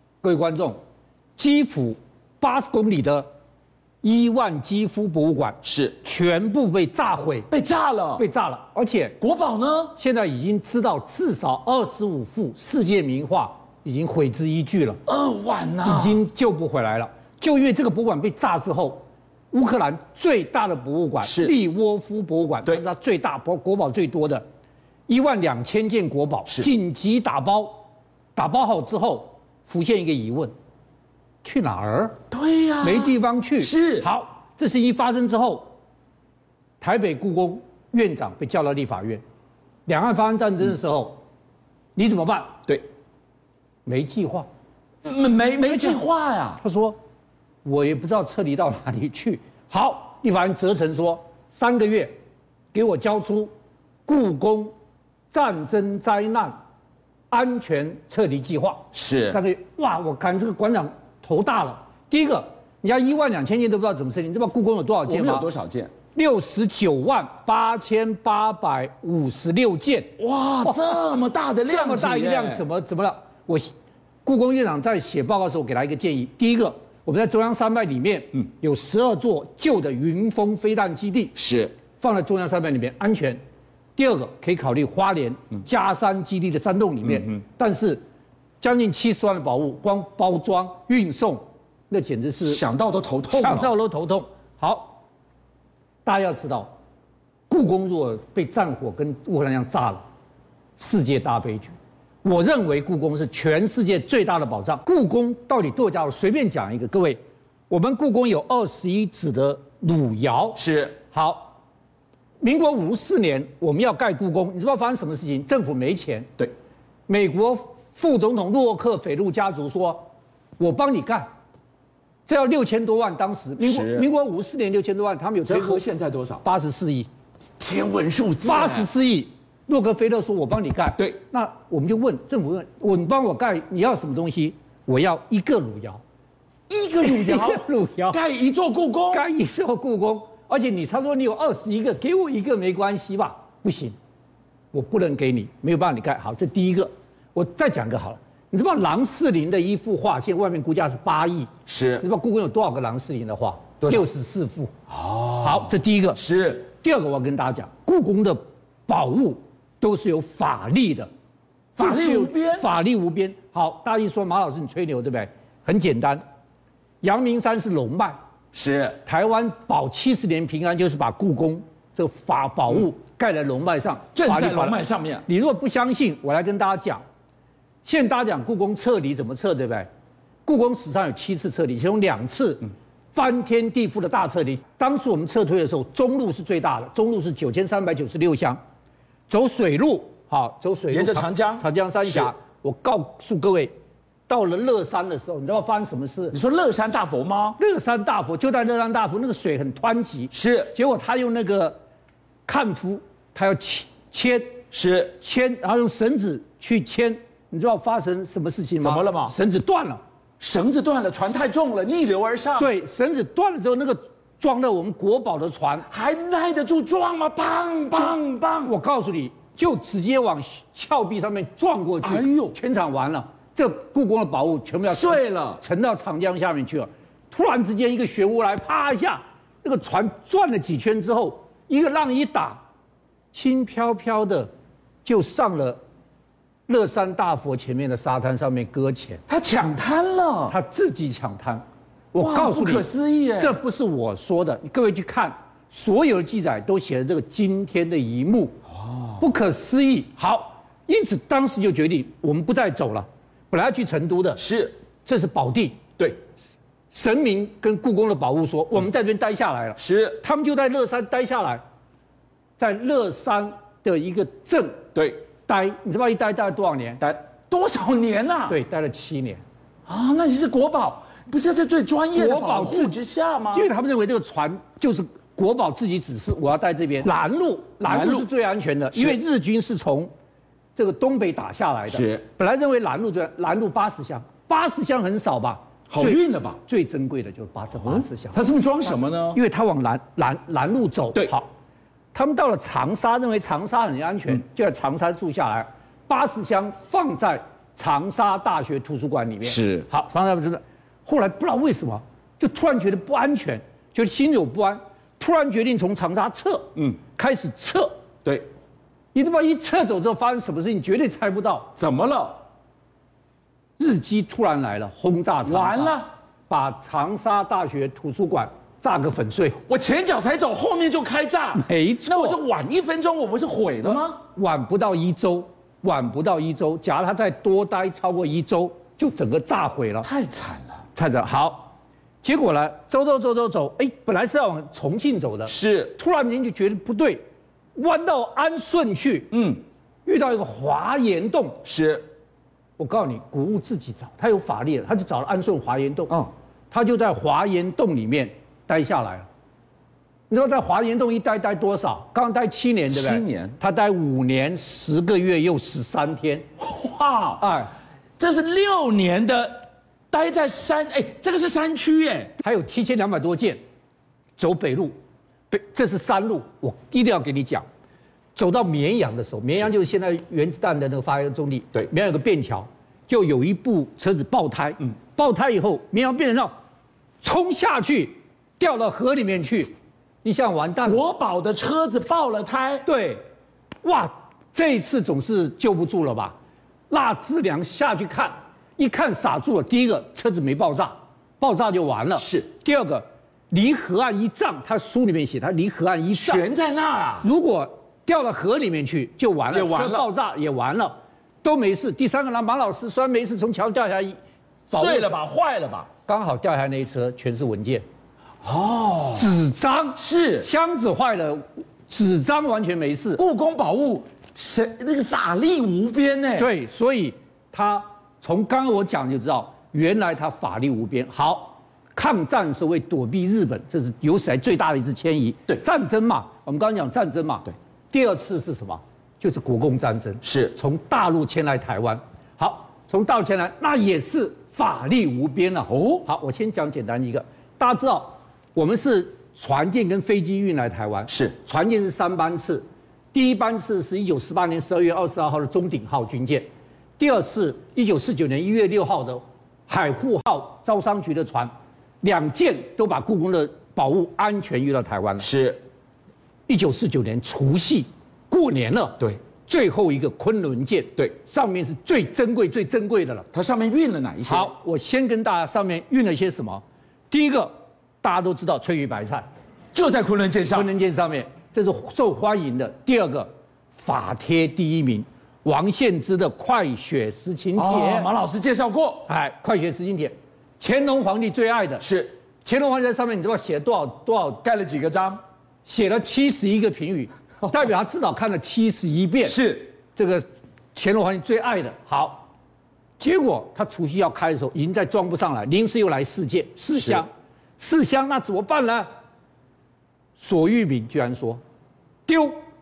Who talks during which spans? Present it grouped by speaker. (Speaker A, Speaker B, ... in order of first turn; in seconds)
Speaker A: 0.2-0.8, 1.4-3.3, 4.0-7.5, 8.2-9.2, 10.0-15.0, 15.8-24.4, 25.1-27.9, 28.4-30.5, 31.4-32.2, 32.8-35.7, 36.8-39.2, 39.9-41.2, 42.0-42.6, 43.9-44.5, 45.6-46.0, 46.6-47.0, 47.6-52.1, 52.7-53.5, 54.1-54.7, 55.3-56.6, 57.3-65.5, 66.2-70.1, 70.7-71.0, 71.7-73.7, 74.2-81.3, 82.0-83.4, 84.0-88.0, 88.6-92.6, 93.3-95.0, 96.0-96.7, 97.5-100.0, 100.8-111.6, 112.4-116.3, 117.1-120.1, 120.6-121.3, 122.3-125.8, 126.4-127.1, 128.4-136.0, 137.0-138.2, 139.1-143.9, 144.7-151.5, 152.0-154.7, 155.4-156.2, 156.7-161.1, 161.8-166.2, 167.0-168.2, 169.1-177.0, 177.8-179.9, 180.5-188.6, 189.3-193.7, 194.3-196.4, 197.6-201.8, 202.5-204.6, 205.2-210.0, 212.6-215.9, 218.0-232.6, 233.3-234.5, 235.1-235.8, 236.7-239.2, 240.5-248.6, 249.2-254.4, 255.1-255.8, 256.9-261.6, 262.6-264.9, 265.5-267.0, 268.5-269.4, 272.1-272.9, 273.5-280.1, 280.8-288.4, 289.3-291.5, 292.1-308.0, 309.1-311.7, 313.8-316.0, 316.5-319.6, 321.5-322.4, 323.9-330.1, 331.0-337.2, 337.8-339.3, 340.1-341.6, 342.8-346.1, 346.7-349.3, 350.3-356.5, 357.4-357.7, 362.4-363.6, 364.4-364.9, 365.5-367.6, 368.4-376.5, 377.2-379.7, 380.2-381.0, 382.9-383.2, 383.8-386.4, 386.9-396.4, 397.2-400.9, 401.4-404.2, 404.7-405.2, 406.1-407.8, 409.1-413.2, 416.4-446.5, 447.0-455.3, 456.5-463.3, 464.3-469.2, 470.5-478.1, 479.1-481.9, 482.4-484.4, 485.7-489.4, 489.9-492.3, 493.0-498.9, 500.2-501.4, 502.1-502.4
Speaker B: 5.6-6.0, 7.5-8.2, 9.2-9.9, 15.1-16.2, 21.2-21.6, 32.3-34.1, 45.0-46.6, 58.9-59.4, 65.1-65.9, 70.2-72.6, 81.4-81.7, 87.1-87.3, 92.4-93.7, 110.6-111.0, 123.6-124.1, 125.5-126.4, 127.6-128.9, 136.7-139.2, 151.7-152.1, 154.9-156.7, 161.8-162.7, 168.5-169.0, 174.2-175.2, 190.9-192.3, 196.3-197.6, 200.3-200.7, 204.7-205.2, 208.8-209.4, 210.4-212.7, 215.9-218.7, 222.0-222.6, 224.8-225.6, 239.3-240.6, 242.2-243.6, 248.9-249.2, 254.4-254.8, 259.8-260.2, 264.9-265.2, 267.0-268.6, 269.9-273.7, 277.9-278.3, 278.9-279.2, 281.9-282.2, 285.9-286.6, 287.8-289.4, 299.4-299.9, 311.8-312.4, 315.4-316.1, 319.6-324.2, 330.0-330.8, 335.5-336.0, 339.3-339.6, 341.6-342.1, 352.9-353.6, 356.6-357.5, 358.2-362.4, 380.9-382.9, 392.2-392.5, 396.1-397.3, 399.5-400.1, 404.7-405.9, 408.4-409.4, 410.0-410.5, 413.2-416.5, 430.2-430.6, 435.7-436.1, 441.1-441.4, 455.2-455.6, 463.3-464.5, 469.7-470.7, 477.6-479.1, 481.8-482.1, 484.4-485.2, 487.4-487.7, 489.2-489.8, 496.7-497.0